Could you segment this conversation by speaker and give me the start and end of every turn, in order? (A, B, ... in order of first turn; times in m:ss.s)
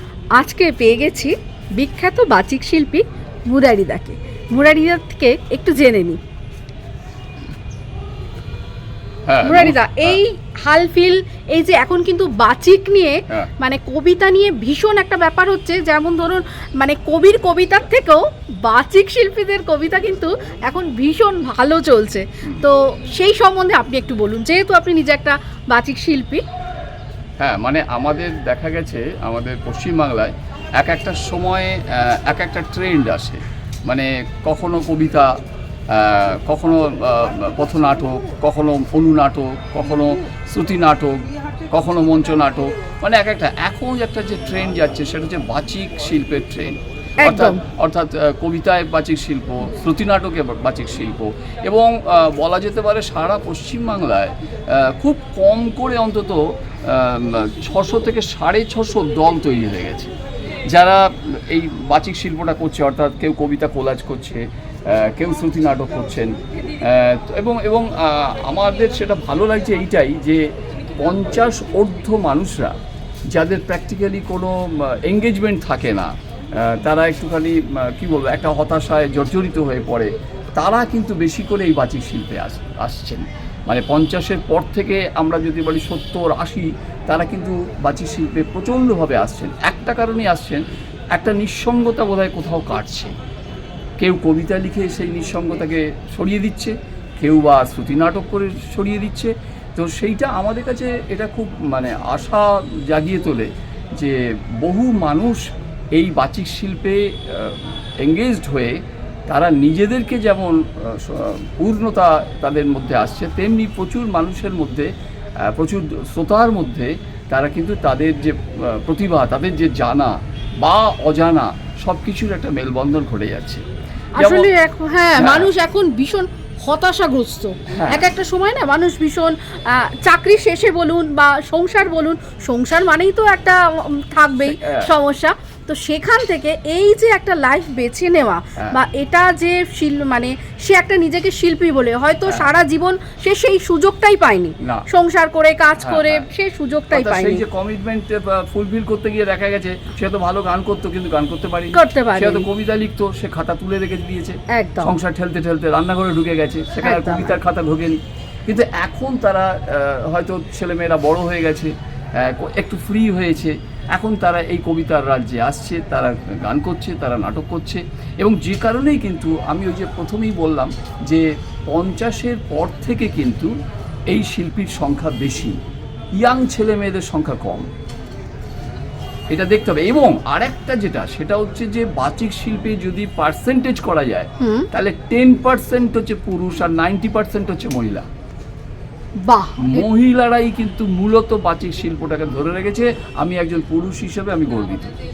0:00.4-0:06.2 A
0:09.3-0:10.2 B
0:09.4-0:26.4 A
0:27.4-1:00.1 B
0:47.2-0:47.6 A
1:00.7-1:10.5 B
1:11.0-1:12.8 B
1:13.3-1:33.2 B
1:34.0-1:54.9 B
1:55.4-2:03.6 B
2:04.2-2:27.4 A
2:04.2-2:04.5 B
2:05.2-2:05.5 B
2:07.7-2:08.1 B
2:14.4-2:14.9 B
2:24.6-2:24.9 B
2:25.8-2:26.3 B
2:26.9-2:53.5 B
2:31.7-2:32.5 A
2:34.5-2:34.9 A
2:36.8-2:37.3 A
2:54.1-2:55.6 B
2:56.2-2:57.7 B
2:59.3-3:08.1 B
3:04.4-3:04.7 A
3:09.2-3:09.9 A
3:09.6-3:14.9 B